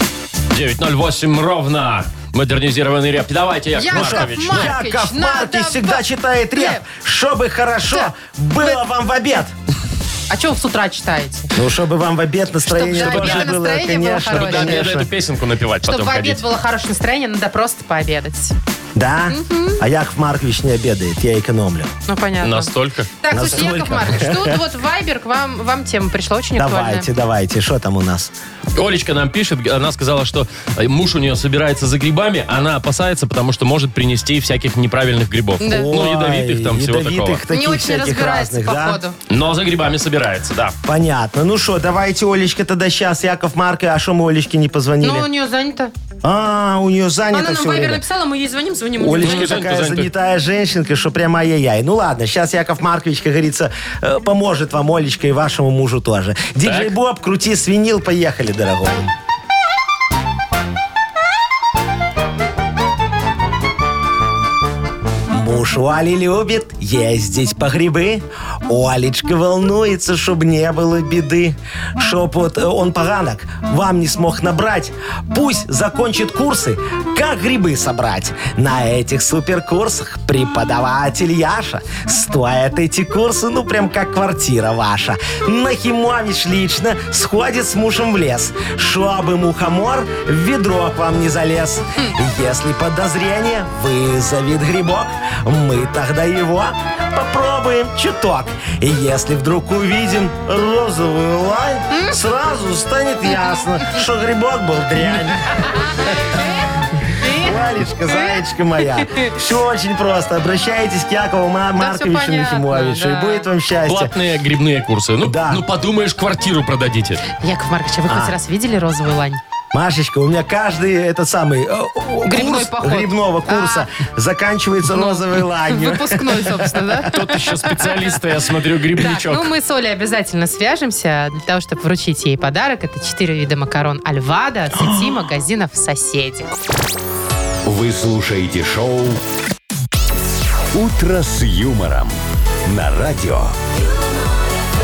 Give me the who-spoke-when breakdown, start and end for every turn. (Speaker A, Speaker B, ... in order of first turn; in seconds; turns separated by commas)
Speaker A: 0.5-4.7, Speaker B: 3.8-6.0, Speaker C: 3.9-9.5, Speaker B: 6.5-6.8, Speaker B: 7.9-8.8, Speaker B: 10.3-11.5, Speaker C: 11.5-15.1, Speaker B: 12.6-14.9, Speaker A: 13.0-13.6, Speaker A: 14.2-16.4, Speaker B: 15.8-18.5, Speaker C: 18.9-21.9, Speaker B: 19.3-19.8, Speaker B: 22.1-27.1, Speaker A: 22.4-23.1, Speaker C: 23.3-24.6, Speaker C: 26.6-28.3, Speaker A: 28.7-37.4, Speaker B: 35.6-35.9, Speaker C: 35.6-39.0, Speaker B: 37.5-39.1, Speaker A: 39.3-40.8, Speaker C: 40.8-45.3, Speaker B: 45.0-45.9, Speaker C: 46.2-48.0, Speaker B: 47.3-49.6, Speaker C: 49.0-59.0, Speaker A: 49.2-50.1, Speaker A: 56.6-56.9, Speaker C: 65.3-106.4, Speaker B: 101.9-102.2, Speaker B: 105.6-108.4, Speaker C: 107.2-114.1, Speaker B: 109.0-109.3, Speaker B: 111.8-113.5, Speaker A: 113.8-117.2, Speaker C: 115.2-115.6, Speaker B: 117.4-119.4, Speaker C: 118.1-118.3, Speaker C: 119.7-127.0, Speaker B: 122.3-123.9, Speaker B: 124.9-127.9, Speaker A: 127.1-129.5, Speaker B: 128.9-136.5, Speaker C: 134.8-135.1, Speaker D: 137.6-139.2, Speaker D: 140.7-143.6